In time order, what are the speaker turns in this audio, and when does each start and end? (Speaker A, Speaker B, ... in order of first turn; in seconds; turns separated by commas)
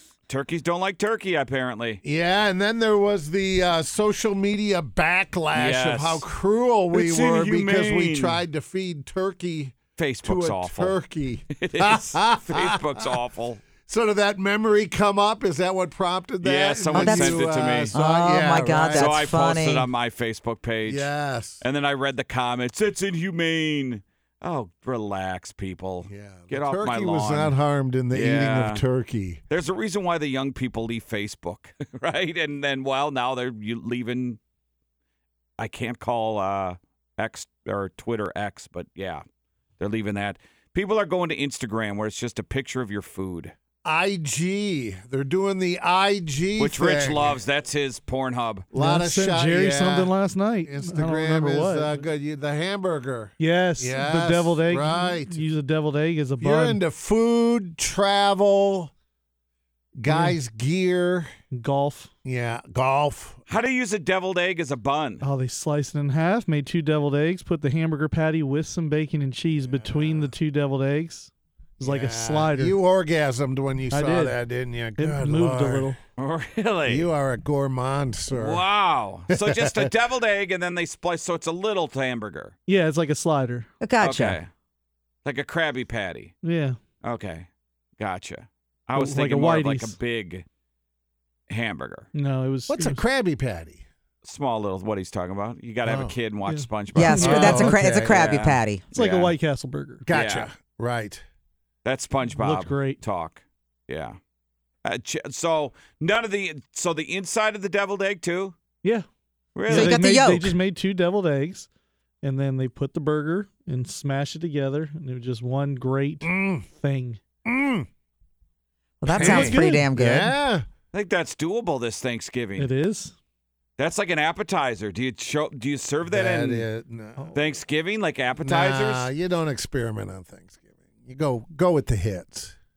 Speaker A: 0.3-2.0, Speaker B: 2.0-12.8, Speaker A: 5.5-6.2, Speaker A: 6.9-8.4, Speaker A: 10.0-11.0, Speaker A: 11.6-13.6, Speaker B: 13.9-19.1, Speaker A: 16.4-17.9, Speaker C: 16.9-19.9, Speaker A: 18.9-21.1, Speaker B: 20.9-21.6, Speaker A: 21.6-27.6, Speaker B: 26.1-29.4, Speaker A: 28.1-28.8, Speaker A: 29.5-34.4, Speaker A: 35.6-39.2, Speaker A: 39.8-43.5, Speaker B: 43.9-47.4, Speaker A: 46.6-48.7, Speaker B: 48.7-50.1, Speaker D: 48.8-52.1, Speaker B: 50.6-55.4, Speaker D: 53.4-56.8, Speaker B: 56.4-58.9, Speaker B: 60.0-61.3, Speaker D: 60.1-60.4, Speaker D: 61.5-62.1, Speaker B: 62.2-63.4, Speaker A: 63.5-65.3, Speaker D: 65.2-71.3, Speaker B: 69.6-70.3, Speaker B: 71.8-76.0, Speaker D: 71.8-72.8, Speaker D: 73.9-74.3, Speaker D: 75.0-76.0, Speaker A: 76.2-77.1, Speaker B: 76.9-78.6, Speaker A: 78.3-82.5, Speaker B: 79.3-79.9, Speaker D: 82.7-83.7, Speaker C: 83.8-84.4, Speaker A: 84.0-84.5, Speaker A: 85.2-86.3, Speaker D: 86.4-86.8, Speaker A: 87.0-90.5, Speaker D: 89.0-90.0, Speaker A: 91.5-92.1, Speaker D: 92.1-93.0, Speaker B: 92.7-93.8, Speaker A: 94.2-99.3, Speaker B: 95.9-96.1, Speaker D: 96.5-97.8, Speaker C: 97.0-98.8, Speaker B: 97.2-98.1, Speaker D: 98.9-100.0, Speaker B: 100.0-101.2, Speaker A: 100.1-100.5, Speaker A: 101.8-104.2, Speaker D: 102.2-103.0, Speaker A: 104.8-108.5, Speaker A: 109.5-110.0, Speaker D: 109.7-111.7, Speaker C: 109.7-110.6, Speaker D: 112.2-117.2, Speaker B: 116.2-116.7, Speaker B: 117.5-117.9, Speaker C: 119.0-120.4, Speaker D: 119.1-119.9, Speaker B: 119.1-120.6, Speaker A: 120.9-122.7, Speaker D: 122.6-123.1, Speaker A: 123.8-126.7, Speaker B: 126.1-127.5, Speaker A: 127.3-129.1, Speaker B: 128.4-132.6